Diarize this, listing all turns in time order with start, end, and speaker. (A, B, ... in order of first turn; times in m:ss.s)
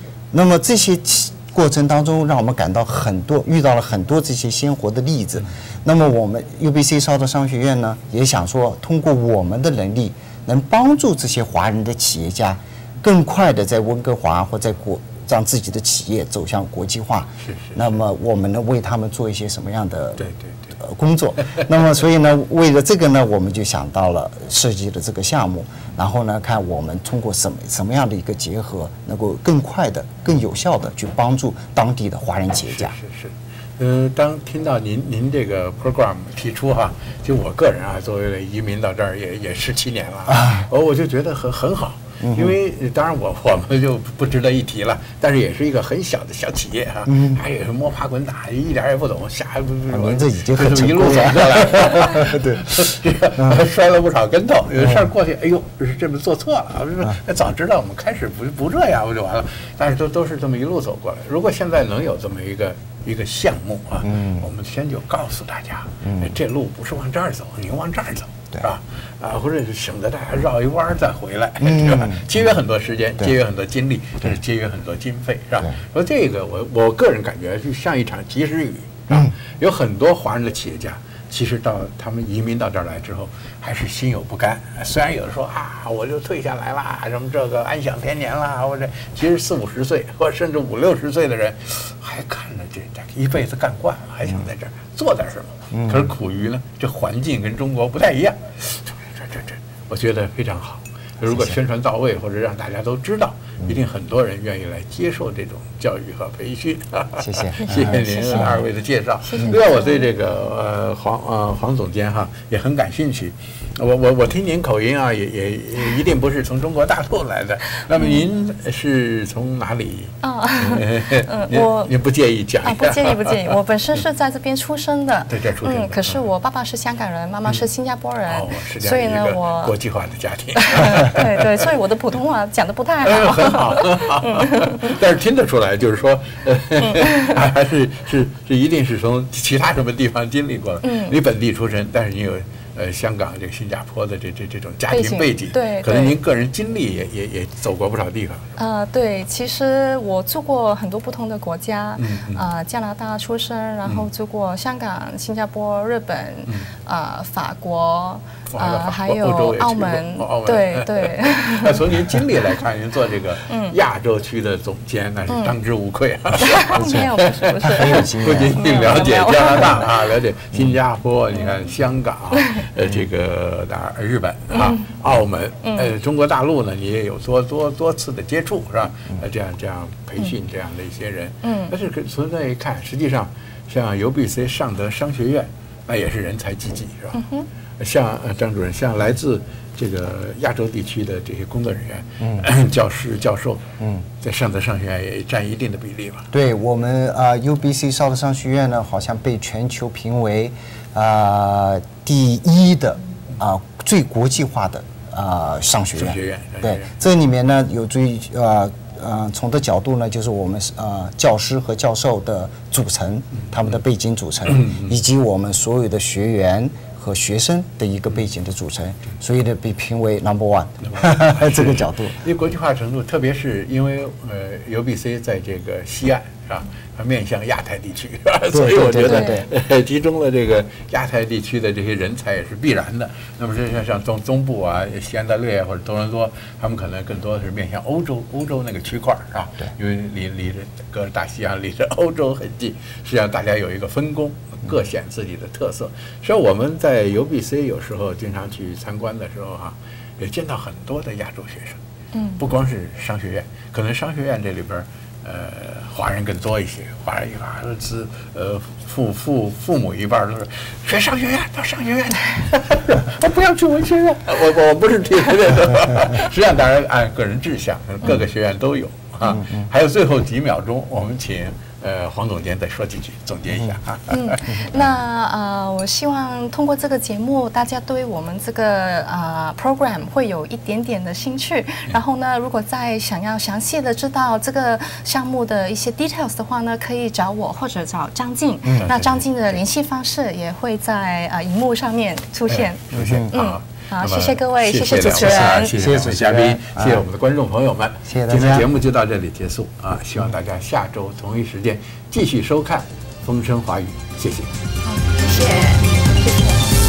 0:00.3-0:20.2 A
0:17.4-0:17.8 B
0:20.2-0:20.7 B
0:20.8-0:33.0 A
0:32.7-2:03.5 B
0:40.3-0:40.6 A
0:42.2-0:42.6 A
0:47.1-0:47.4 A
0:49.9-0:52.9 A
0:53.4-0:53.6 A
0:54.8-0:55.1 A
1:04.0-1:04.5 A
1:06.0-1:06.3 A
1:11.6-1:12.4 A
1:35.7-1:36.1 A
1:47.2-1:48.5 A
1:47.6-1:48.6 C
1:49.2-1:50.1 C
1:58.0-1:58.2 C
2:00.2-2:01.9 C
2:02.6-2:09.7 C
2:05.3-2:06.2 B
2:08.3-2:11.5 B
2:10.6-2:14.9 C
2:13.0-2:28.5 B
2:17.0-2:17.4 C
2:20.8-2:21.2 C
2:24.9-2:26.1 C
2:28.6-2:41.8 C
2:32.0-2:32.4 B
2:38.5-3:07.2 B
2:43.5-2:43.8 C
2:46.4-2:49.9 C
2:46.7-2:48.7 A
2:54.5-2:54.8 C
2:55.6-2:55.9 C
3:01.4-3:01.7 C
3:07.1-3:07.5 C
3:07.8-3:13.6 B
3:14.2-3:16.3 B
3:16.3-3:42.2 A
3:26.0-3:26.9 B
3:40.9-4:11.8 B
3:48.5-3:49.5 A
3:49.0-3:49.4 C
4:12.1-4:12.4 C
4:12.4-4:34.6 B
4:34.1-4:55.8 C
4:48.6-4:48.9 A
4:48.8-4:49.2 B
4:52.5-5:04.5 B
4:52.9-4:53.3 A
4:55.8-4:57.0 A
4:58.1-4:58.7 A
5:04.9-5:06.6 C